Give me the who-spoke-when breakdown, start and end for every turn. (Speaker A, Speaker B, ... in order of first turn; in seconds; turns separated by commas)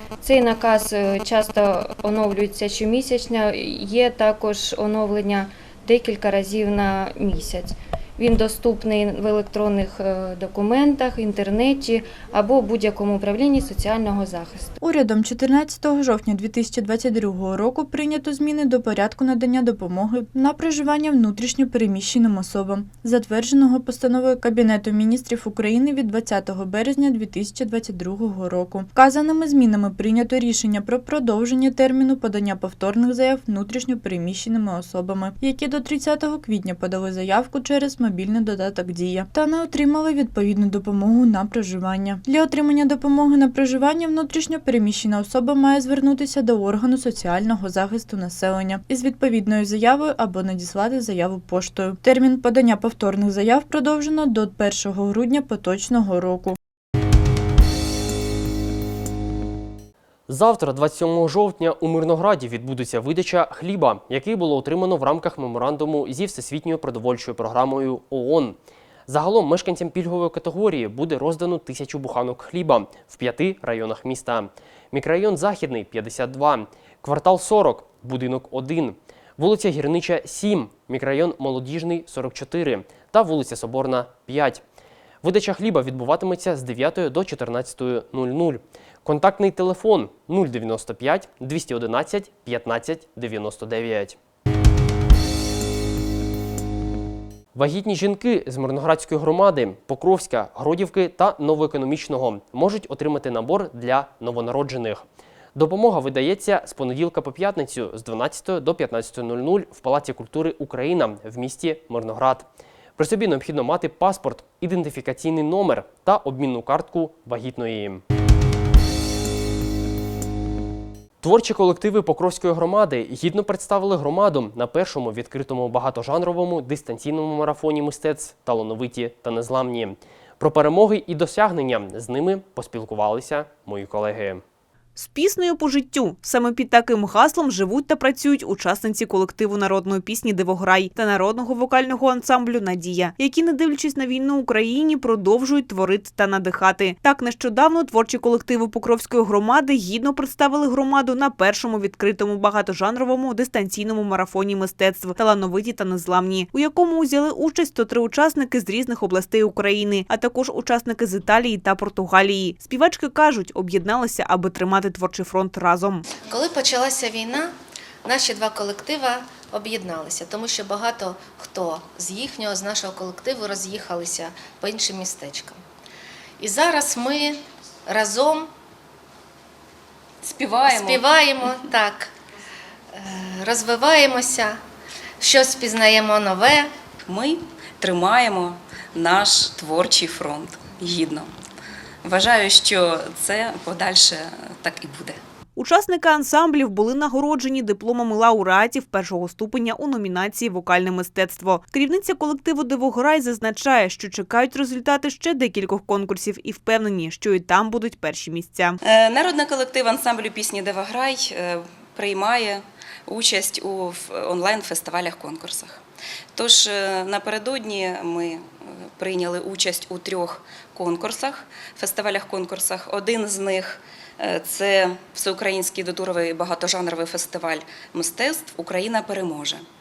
Speaker A: 0.2-14.8, Speaker B: 14.8-56.6, Speaker C: 60.3-84.6, Speaker C: 85.2-94.2, Speaker C: 97.5-105.0, Speaker C: 105.5-118.0, Speaker C: 121.2-134.4, Speaker D: 135.0-166.1, Speaker E: 166.2-167.5, Speaker E: 168.0-175.6, Speaker E: 176.4-178.5, Speaker F: 180.2-181.5, Speaker E: 180.7-182.1, Speaker E: 182.9-184.6, Speaker E: 185.2-186.7, Speaker F: 187.1-191.3, Speaker F: 192.0-195.2, Speaker D: 195.6-208.8, Speaker F: 208.8-215.8, Speaker F: 216.3-229.7